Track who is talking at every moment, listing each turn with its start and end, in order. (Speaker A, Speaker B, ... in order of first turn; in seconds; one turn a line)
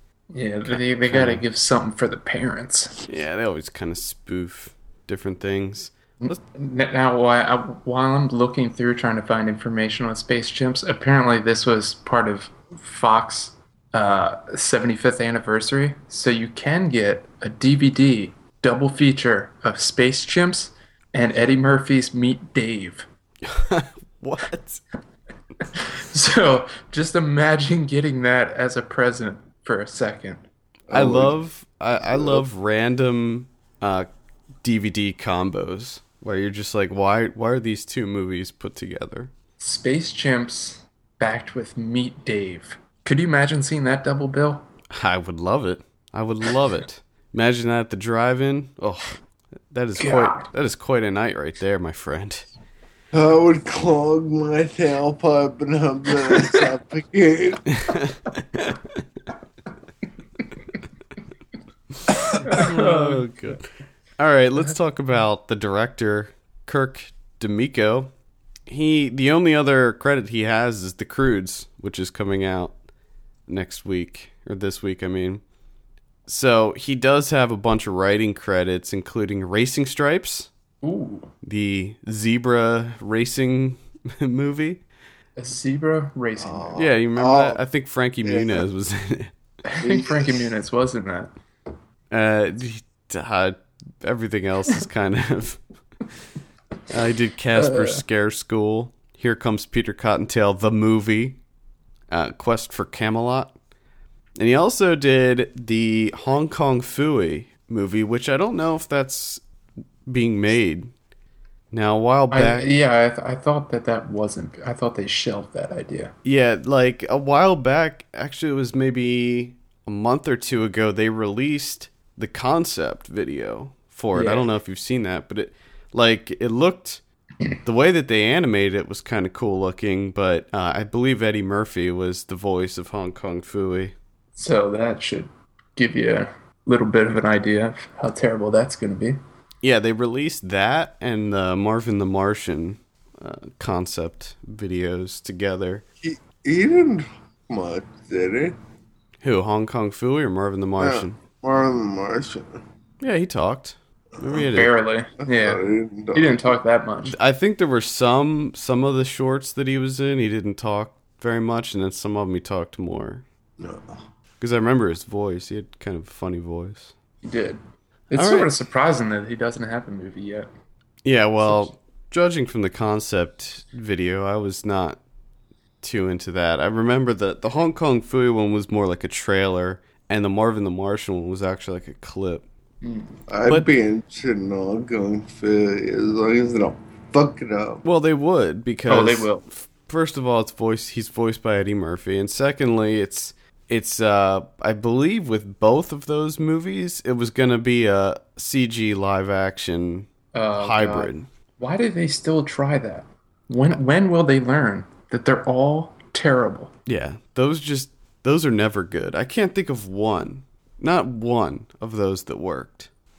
Speaker A: 0.3-3.0
Speaker B: 1.1-1.4
Speaker B: 3.1-6.3
Speaker A: 6.2-23.1
Speaker B: 23.4-24.8
Speaker A: 25.7-30.4
Speaker C: 30.9-31.4
Speaker B: 30.9-34.1
Speaker C: 32.0-32.5
Speaker B: 34.6-39.3
Speaker A: 39.6-44.7
Speaker B: 44.9-49.2
Speaker B: 49.7-52.5
Speaker A: 50.0-50.5
Speaker C: 53.1-57.6
Speaker B: 57.7-58.8
Speaker B: 62.1-68.1
Speaker A: 62.4-63.3
Speaker B: 68.7-72.7
Speaker B: 73.5-75.4
Speaker B: 76.3-80.5
Speaker A: 80.8-81.3
Speaker B: 81.4-84.8
Speaker A: 85.3-86.8
Speaker C: 86.4-87.6
Speaker B: 86.8-89.3
Speaker C: 88.2-88.6
Speaker A: 89.7-91.3
Speaker C: 89.8-90.5
Speaker B: 92.1-95.6
Speaker B: 96.9-101.4
Speaker A: 97.5-98.0
Speaker B: 102.1-103.5
Speaker B: 104.4-109.4
Speaker B: 110.0-110.9
Speaker B: 111.7-112.7
Speaker A: 112.3-116.1
Speaker B: 116.2-127.0
Speaker A: 124.1-124.5
Speaker B: 127.6-133.9
Speaker A: 134.3-139.2
Speaker B: 139.6-145.8
Speaker C: 146.0-148.6
Speaker B: 149.2-151.2
Speaker C: 150.8-152.6
Speaker B: 153.0-154.7
Speaker C: 154.2-154.4
Speaker A: 154.5-157.2
Speaker C: 155.2-156.5
Speaker B: 157.1-163.2
Speaker C: 163.6-164.0
Speaker B: 164.4-166.9
Speaker A: 167.2-170.5
Speaker B: 168.1-168.5
Speaker B: 171.0-175.0
Speaker A: 171.4-171.7
Speaker B: 175.8-182.4
Speaker A: 182.8-183.2
Speaker C: 183.3-187.8
Speaker B: 187.8-201.3
Speaker A: 188.9-189.4
Speaker A: 200.3-206.7
Speaker B: 206.9-212.9